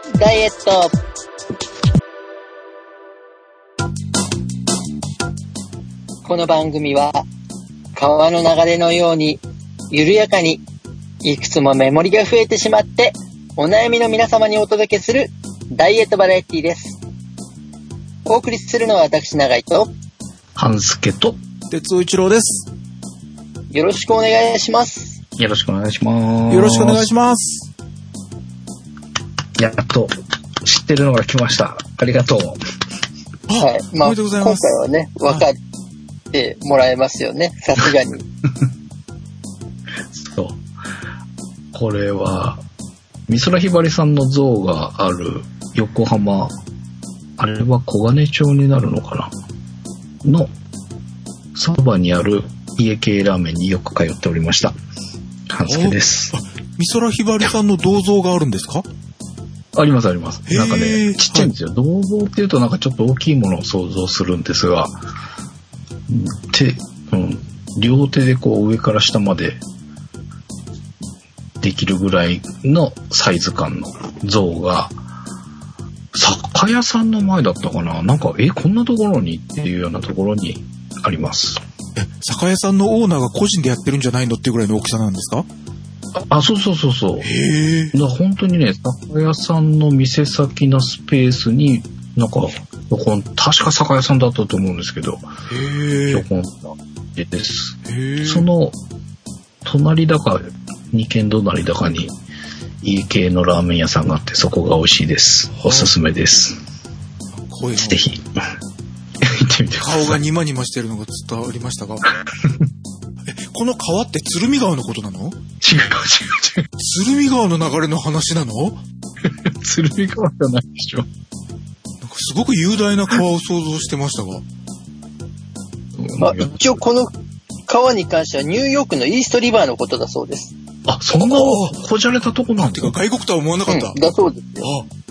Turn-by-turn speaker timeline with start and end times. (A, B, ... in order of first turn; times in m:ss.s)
0:00.2-0:01.0 A
0:06.2-0:07.2 A
0:07.9-0:10.6 A
0:11.2-0:17.0 A
0:18.2-0:19.9 A
0:20.6-0:21.4 B
0:21.7-0:22.7 C
0:23.7-0:25.2 A
0:25.4-0:27.1 B
0:26.5-0:27.7 C
0:29.6-0:30.1 B
0:30.6-0:32.6 B
0:33.5-0:34.7 C
0:33.6-0:35.6 A
0:36.3-0:38.2 A
0:40.1-0:40.6 B
0:41.7-0:42.6 B
0:43.3-0:46.6 B
0:47.4-0:49.3 B
0:50.2-0:50.5 B
0:51.5-0:54.7 B
0:55.5-0:56.3 B
0:55.7-0:58.8 C
0:59.7-1:05.0 B
1:00.5-1:01.5 C
1:06.1-1:09.6 B
1:11.6-1:14.9 B
1:16.1-1:21.6 B
1:22.0-1:25.4 C
1:26.2-1:27.3 B
1:27.2-1:28.0 C
1:27.9-1:35.2 B
1:35.5-1:36.2 C
1:36.1-1:38.8 B
1:37.8-1:38.4 C
1:39.6-1:42.1 B
1:42.8-1:46.6 B
1:45.5-1:45.9 C
1:47.3-1:48.0 C
1:47.8-1:48.4 B
1:49.2-1:50.2 B
1:49.8-1:52.1 C
1:52.4-1:52.7 B
1:53.2-1:55.4 C
1:55.6-1:56.7 B
1:56.8-1:58.8 C
1:59.2-2:01.1 B
2:02.0-2:04.4 C
2:06.0-2:06.7 B
2:06.2-2:07.1 A
2:07.7-2:10.5 A
2:10.8-2:12.9 B
2:11.2-2:11.7 C
2:12.6-2:14.0 C
2:13.7-2:14.7 A